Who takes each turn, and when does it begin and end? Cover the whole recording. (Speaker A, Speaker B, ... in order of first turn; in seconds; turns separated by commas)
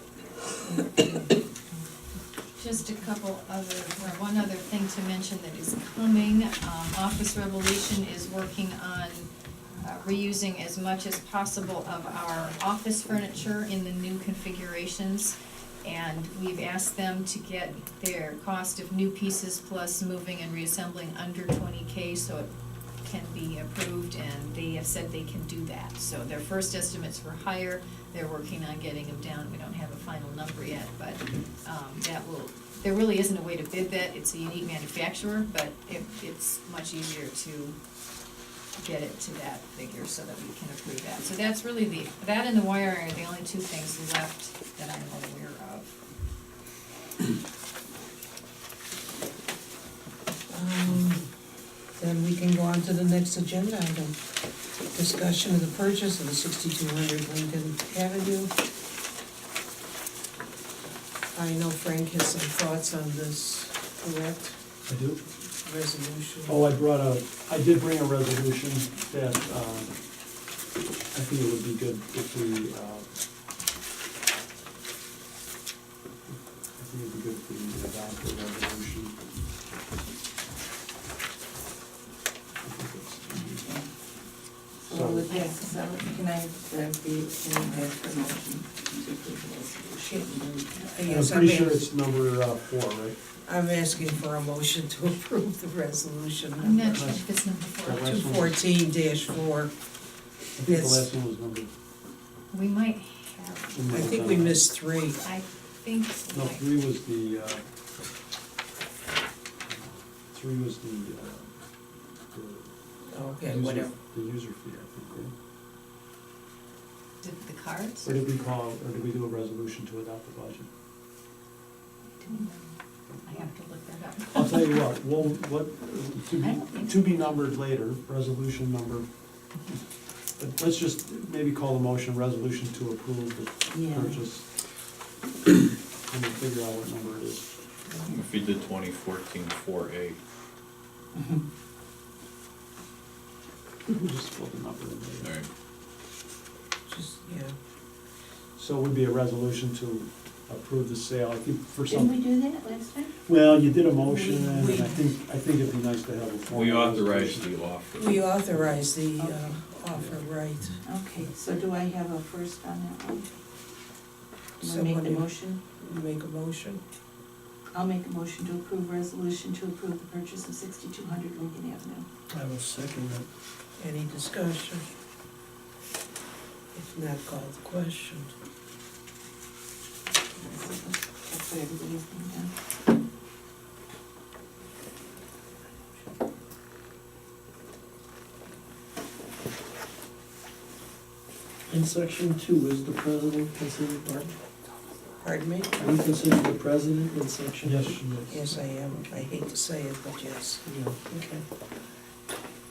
Speaker A: 0.8-1.1, Speaker B: 2.5-22.5, Speaker B: 23.0-37.8, Speaker B: 38.8-45.9, Speaker A: 50.5-51.3, Speaker A: 52.0-54.2, Speaker A: 54.9-58.5, Speaker A: 61.3-64.6, Speaker C: 64.8-65.2, Speaker A: 65.6-66.7, Speaker C: 66.5-69.9, Speaker C: 71.1-73.0, Speaker C: 76.3-79.2, Speaker C: 82.6-83.7, Speaker D: 83.3-83.9, Speaker D: 84.8-91.0, Speaker C: 84.9-85.3, Speaker B: 85.3-85.6, Speaker A: 90.8-91.8, Speaker C: 91.0-93.2, Speaker A: 93.5-97.1, Speaker B: 96.6-98.2, Speaker C: 96.8-97.2, Speaker C: 97.8-98.5, Speaker A: 98.0-99.7, Speaker C: 100.6-101.7, Speaker A: 100.6-101.0, Speaker B: 102.5-103.8, Speaker C: 103.7-104.6, Speaker A: 103.9-105.2, Speaker B: 105.2-106.7, Speaker C: 106.3-107.6, Speaker C: 109.7-111.5, Speaker C: 112.3-112.7, Speaker A: 113.0-113.9, Speaker C: 113.4-115.3, Speaker B: 117.2-118.1, Speaker C: 118.0-120.7, Speaker B: 122.2-122.7, Speaker B: 123.2-124.8, Speaker C: 124.3-129.1, Speaker B: 126.3-127.4, Speaker C: 130.4-134.5, Speaker D: 133.7-134.2, Speaker C: 136.1-137.4, Speaker E: 138.0-140.2, Speaker C: 143.9-145.3, Speaker E: 145.2-145.4, Speaker A: 146.9-147.5, Speaker C: 148.6-152.2, Speaker D: 151.9-153.1, Speaker C: 153.2-157.5, Speaker D: 154.1-154.6, Speaker A: 154.5-154.9, Speaker E: 156.5-158.8, Speaker A: 157.9-160.8, Speaker D: 159.2-159.6, Speaker D: 160.8-163.3, Speaker A: 164.6-166.8, Speaker D: 164.6-165.6, Speaker D: 167.7-172.1, Speaker C: 172.3-173.2, Speaker A: 173.8-174.9, Speaker A: 176.7-178.3, Speaker D: 180.3-182.5, Speaker F: 191.7-194.3, Speaker A: 195.2-195.8, Speaker F: 195.8-198.1, Speaker C: 197.6-199.3, Speaker A: 198.2-200.6, Speaker F: 200.7-201.4